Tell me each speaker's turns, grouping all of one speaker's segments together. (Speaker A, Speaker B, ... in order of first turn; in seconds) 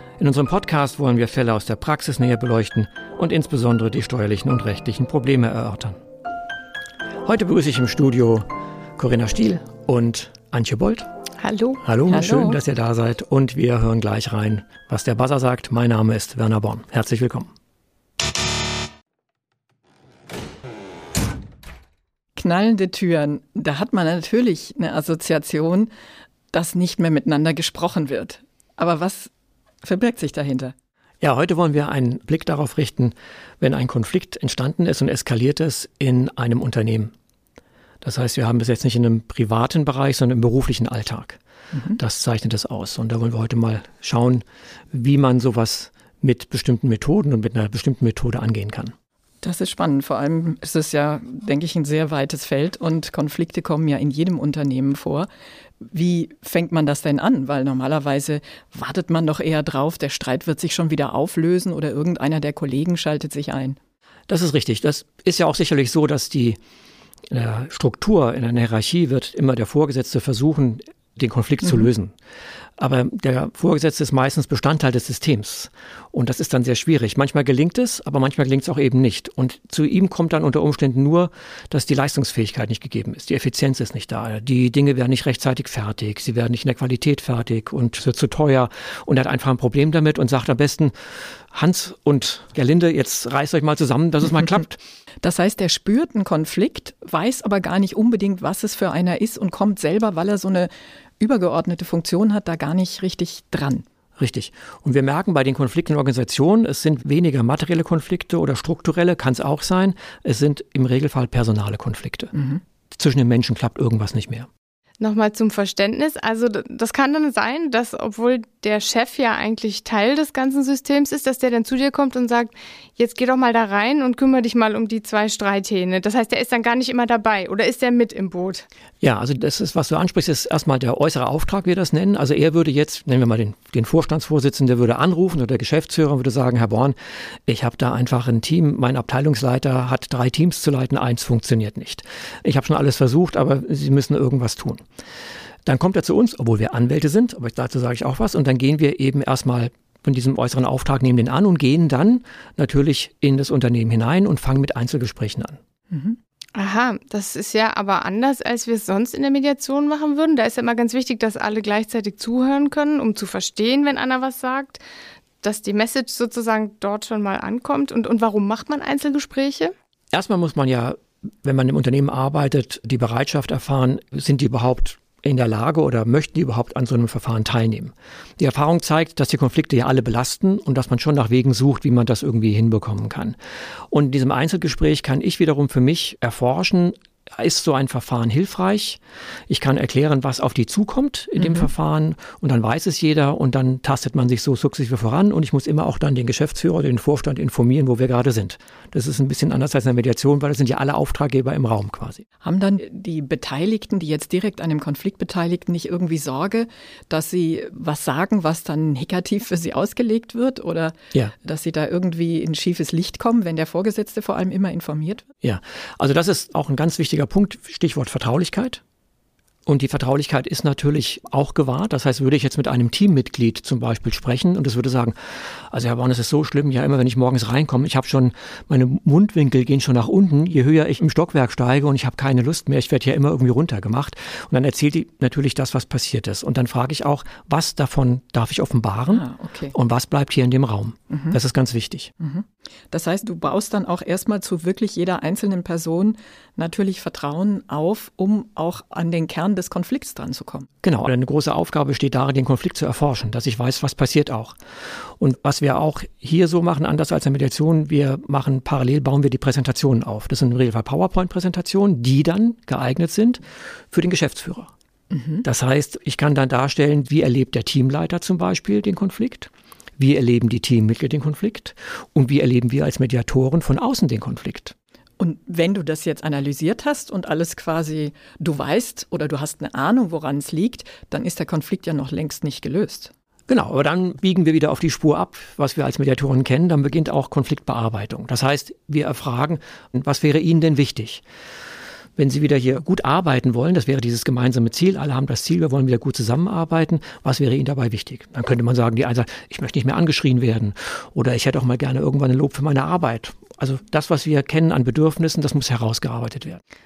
Speaker A: 0.2-6.0, 7.3-8.5, 9.0-11.1, 11.8-17.5, 31.2-37.1, 38.0-41.4, 42.0-48.9, 64.3-66.6, 67.3-72.1, 72.8-90.9, 91.5-94.8, 104.2-112.3, 112.9-114.5, 129.0-137.0, 137.5-144.8, 145.7-155.6, 170.1-183.4, 183.9-202.2, 215.4-218.8, 219.7-225.2, 225.7-242.1, 250.8-254.6, 255.2-264.7, 265.4-274.7, 283.5-291.2, 292.2-306.6
Speaker B: 11.4-11.8, 115.0-128.7, 156.6-164.8, 165.4-169.7
Speaker C: 12.1-12.6, 22.4-25.9, 26.5-29.3, 29.8-30.7, 41.7-42.0, 49.4-55.3, 55.8-63.8, 95.2-103.8, 112.3-112.6, 155.9-156.2, 191.4-191.7, 202.4-215.3, 239.1-239.7, 241.1-241.4, 242.2-250.7, 265.1-265.4, 275.2-283.1